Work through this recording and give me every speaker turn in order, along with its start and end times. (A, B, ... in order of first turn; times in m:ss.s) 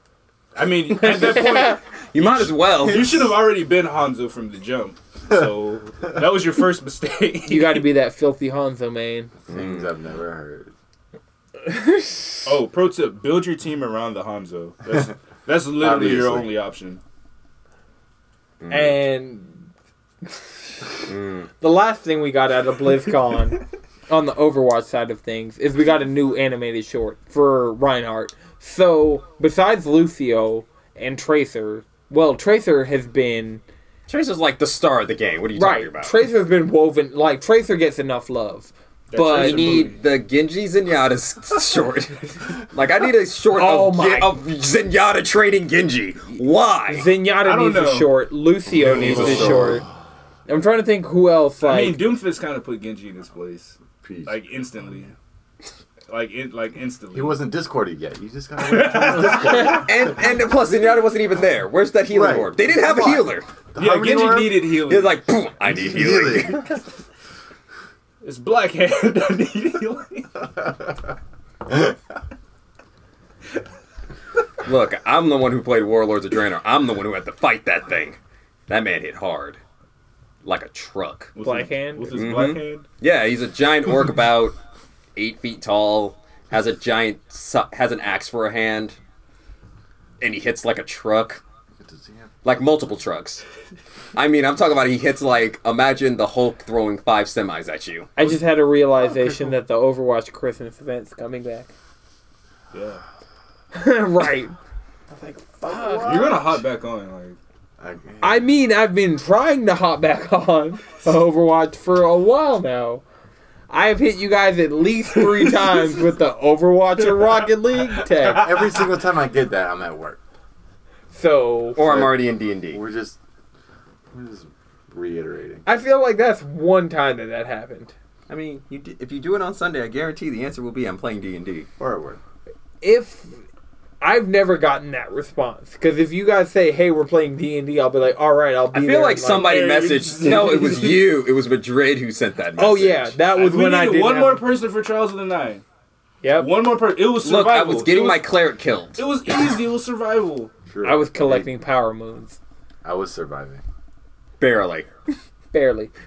0:00.6-0:07.9 A
0:00.9-0:01.8 B
0:02.1-0:03.4 C
0:07.4-0:09.3 B
0:09.5-0:10.7 D
0:09.5-0:09.9 C
0:11.7-0:12.4 B
0:12.4-0:17.0 A
0:15.8-0:16.5 D
0:18.6-0:19.0 C
0:18.7-0:19.7 B
0:20.2-0:20.7 B
0:21.1-0:21.5 C
0:21.6-0:33.6 B
0:34.1-0:36.2 C
0:35.6-0:39.9 B
0:39.1-0:40.0 A
0:39.2-0:47.1 C
0:43.5-0:44.4 B
0:46.9-0:49.8 B
0:47.4-0:48.2 A
0:48.7-0:49.8 D
0:48.9-0:49.7 C
0:49.0-0:49.7 A
0:50.5-0:52.1 B
0:51.6-0:55.2 A
0:54.0-0:54.4 D
0:56.1-0:57.4 A
0:57.1-1:00.2 D
0:58.6-0:59.8 A
0:59.5-1:03.5 C
1:02.1-1:04.7 D
1:03.8-1:05.2 A
1:04.8-1:06.8 C
1:05.6-1:06.8 D
1:08.2-1:10.4 A
1:14.6-1:19.6 C
1:20.4-1:21.3 C
1:21.4-1:22.8 A
1:21.4-1:22.2 B
1:22.1-1:24.6 C
1:25.2-1:29.0 C
1:30.2-1:31.4 C
1:31.8-1:32.3 D
1:32.4-1:33.4 C
1:34.2-1:38.1 C
1:38.2-1:41.7 B
1:39.0-1:39.6 D
1:42.7-1:43.0 A
1:43.7-1:44.6 B
1:45.1-1:46.5 B
1:45.7-1:46.4 D
1:46.0-1:47.4 A
1:47.8-1:48.5 D
1:48.2-1:53.0 B
1:53.7-1:58.6 B
1:58.2-2:00.2 D
2:01.1-2:01.8 B
2:01.8-2:02.8 C
2:01.8-2:03.2 D
2:04.1-2:05.6 D
2:05.7-2:07.9 B
2:08.3-2:11.7 C
2:11.8-2:12.2 D
2:12.8-2:13.4 B
2:14.0-2:19.6 B
2:18.7-2:23.2 C
2:19.3-2:21.1 A
2:22.6-2:24.5 B
2:23.3-2:25.6 A
2:26.2-2:26.5 B
2:26.4-2:28.3 A
2:27.2-2:29.0 C
2:29.0-2:30.5 A
2:30.7-2:31.5 D
2:30.8-2:32.4 B
2:32.8-2:33.6 D
2:34.4-2:34.9 C
2:35.5-2:35.9 B